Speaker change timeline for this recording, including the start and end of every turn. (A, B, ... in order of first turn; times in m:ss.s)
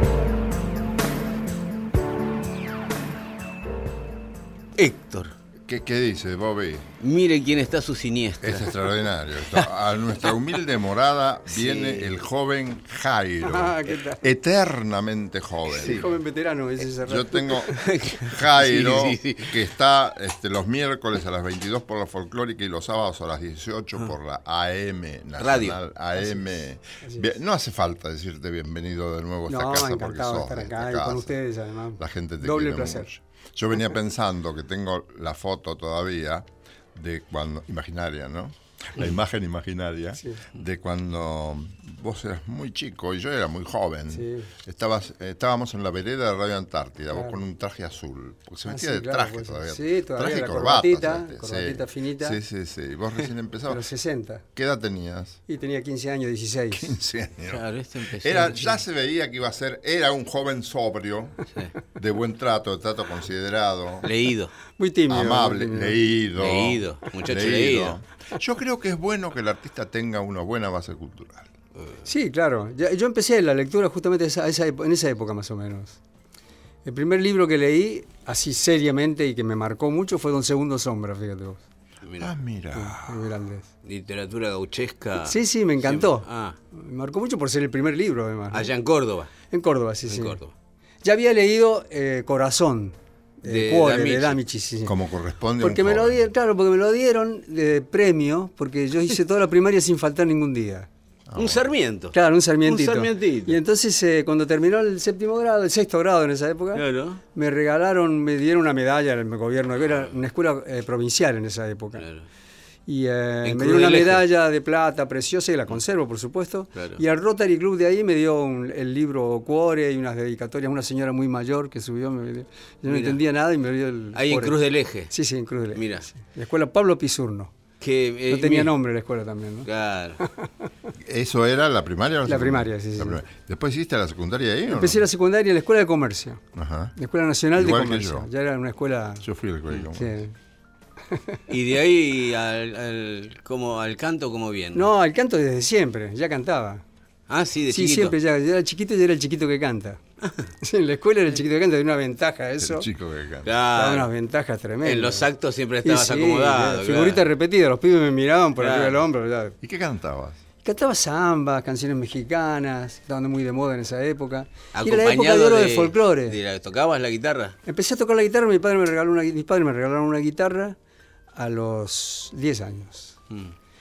0:04.8-0:05.3 A
0:05.7-0:06.9 B
0:07.0-0:08.8 A
0:08.4-0:16.1 B
0:11.5-0:12.2 A
0:13.4-0:14.2 C
0:15.7-0:17.8 C
0:17.0-0:31.4 B
0:17.7-0:19.6 A
0:25.4-0:25.8 A
0:29.5-0:33.1 C
0:32.0-0:53.8 B
0:44.1-0:44.5 C
0:47.1-0:47.4 C
0:48.7-0:52.4 C
0:53.7-0:54.4 C
0:54.6-0:55.4 B
0:55.5-0:56.9 C
0:56.7-1:04.1 B
0:57.5-0:58.7 A
1:04.0-1:04.5 A
1:04.8-1:06.0 C
1:05.1-1:11.5 B
1:06.4-1:08.0 A
1:12.0-1:16.0 C
1:16.8-1:21.6 C
1:22.0-1:22.3 A
1:22.2-1:23.2 B
1:22.8-1:23.7 C
1:23.8-1:26.6 A
1:25.2-1:28.7 C
1:28.5-1:29.3 A
1:29.5-1:30.4 C
1:30.1-1:30.5 A
1:31.0-1:35.0 C
1:33.5-1:34.4 A
1:34.8-1:36.2 B
1:35.6-1:40.9 C
1:41.3-1:41.7 B
1:41.4-1:43.6 A
1:42.1-1:52.0 C
1:46.7-1:47.2 A
1:52.0-1:52.3 A
1:52.9-2:04.6 C
1:53.4-1:54.2 A
1:56.8-1:57.0 A
2:02.9-2:03.2 A
2:04.2-2:05.1 A
2:05.1-2:07.5 C
2:05.7-2:06.1 A
2:07.8-2:08.8 A
2:08.3-2:10.5 C
2:09.7-2:10.2 A
2:11.0-2:15.0 B
2:12.3-2:13.2 C
2:14.7-2:16.4 C
2:16.6-2:17.0 B
2:17.0-2:19.3 C
2:17.6-2:18.3 B
2:19.2-2:20.2 B
2:19.9-2:20.3 C
2:21.1-2:21.4 C
2:21.5-2:24.9 A
2:24.7-2:26.8 C
2:27.3-2:28.2 A
2:27.7-2:30.0 C
2:30.6-2:32.9 C
2:32.6-2:33.6 B
2:33.4-2:34.1 A
2:33.7-2:35.3 C
2:34.8-2:37.2 A
2:35.8-2:39.6 C
2:38.6-2:39.0 A
2:39.6-2:40.4 B
2:40.6-2:46.4 C
2:44.7-2:47.6 A
2:47.7-2:50.8 C
2:51.4-2:53.2 C